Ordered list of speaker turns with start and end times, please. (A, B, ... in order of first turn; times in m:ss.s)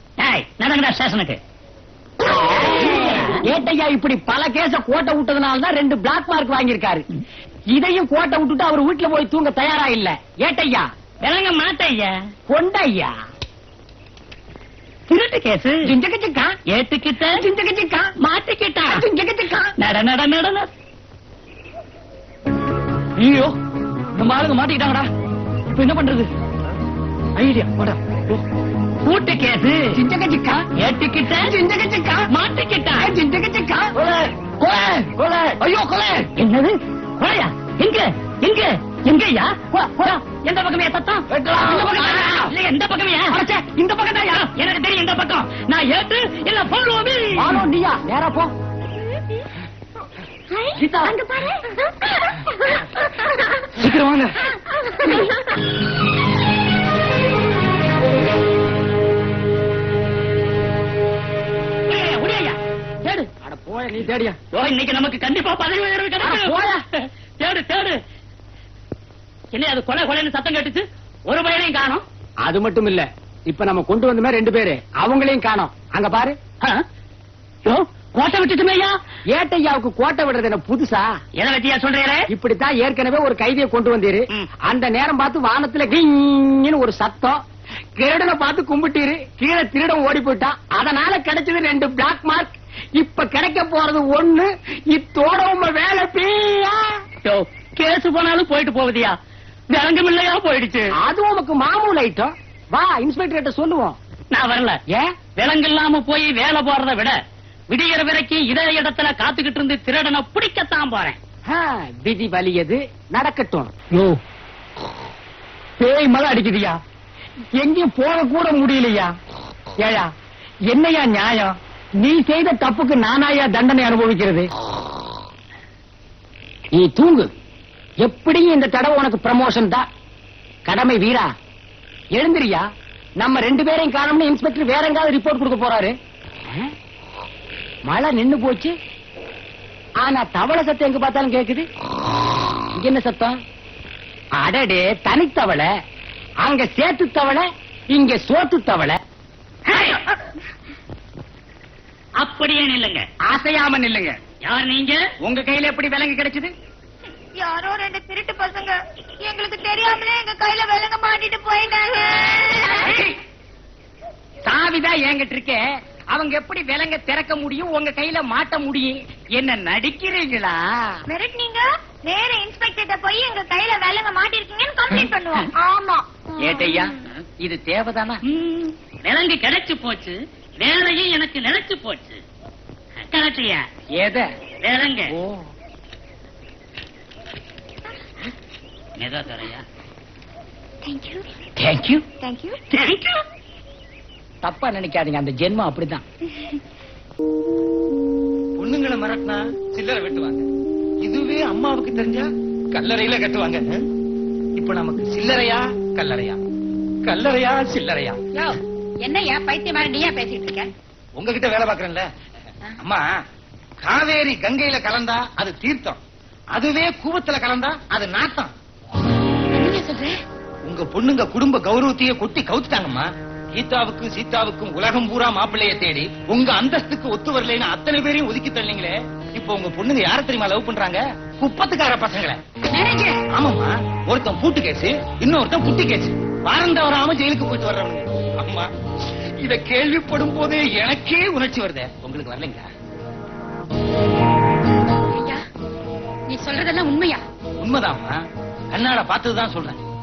0:00.2-0:01.4 A
0:02.2-0:07.0 B
0:02.8-0:03.4 A
0:07.7-0:10.9 B
0:11.2-0:12.1 A
0:12.5-0:13.1 B
0:15.1-0:15.8 A
0:15.9-0:16.5 B
0:16.7-0:17.4 A
0:17.3-0:18.1 B
0:18.2-0:19.0 A
0:18.9-0:19.7 B
0:19.8-0:20.7 A
0:23.2-0:23.5 C
0:24.2-0:25.1 C
0:25.8-0:26.3 C
0:27.4-0:28.0 C
0:29.0-0:30.0 A
0:30.0-0:30.6 B
0:30.8-0:31.5 A
0:31.3-0:32.2 B
0:32.3-0:33.1 A
0:33.0-0:33.9 B
0:34.8-0:36.3 C
0:36.4-0:43.4 A
0:39.7-0:40.2 B
0:41.4-0:42.5 B
0:43.3-0:44.5 B
0:44.5-0:47.6 A
0:47.4-0:48.5 B
0:50.5-0:51.9 D
0:52.8-0:53.6 D
0:53.8-0:54.3 C
0:54.5-0:55.4 D
1:01.9-1:03.3 A
1:03.4-1:04.4 B
1:04.5-1:08.0 A
1:06.2-1:06.8 B
1:09.5-1:12.0 A
1:12.4-1:16.4 B
1:17.6-1:19.0 A
1:19.3-1:21.1 B
1:21.4-1:22.2 A
1:22.3-1:27.4 B
1:28.0-1:36.8 B
1:37.2-1:39.2 A
1:39.7-1:40.9 A
1:41.0-1:44.0 B
1:44.3-1:44.8 A
1:45.4-1:47.2 A
1:47.7-1:51.2 A
1:51.5-1:53.7 B
1:55.8-1:56.8 B
1:57.6-1:59.1 B
1:59.8-2:00.1 B
2:00.7-2:04.5 B
2:06.8-2:07.3 B
2:08.0-2:09.8 B
2:10.7-2:11.3 B
2:12.1-2:12.6 B
2:13.2-2:16.0 B
2:17.9-2:18.7 B
2:20.0-2:21.7 B
2:22.8-2:23.3 B
2:24.4-2:25.7 B
2:26.4-2:29.0 B
2:32.2-2:33.1 A
2:33.3-2:34.2 B
2:34.4-2:35.0 A
2:35.2-2:36.5 B
2:37.4-2:43.0 D
2:42.8-2:43.1 B
2:44.4-2:50.6 B
2:51.1-2:57.0 D
2:56.4-2:58.2 B
2:58.5-3:02.2 A
3:03.1-3:03.6 A
3:04.0-3:04.3 B
3:04.6-3:05.1 A
3:09.0-3:09.6 A
3:10.8-3:11.3 D
3:11.6-3:12.0 B
3:12.2-3:12.6 D
3:12.7-3:13.2 A
3:14.4-3:16.0 B
3:18.6-3:20.5 E
3:21.0-3:23.8 E
3:24.6-3:26.4 E
3:27.1-3:28.2 E
3:28.4-3:30.7 F
3:31.2-3:32.1 E
3:33.8-3:36.0 E
3:36.5-3:38.5 E
3:39.5-3:40.1 F
3:40.7-3:52.4 E
3:52.7-3:53.2 F
3:53.3-3:58.7 E
3:59.4-4:02.7 E
4:05.1-4:05.4 F
4:06.3-4:07.2 F
4:07.6-4:08.2 E
4:08.7-4:09.8 E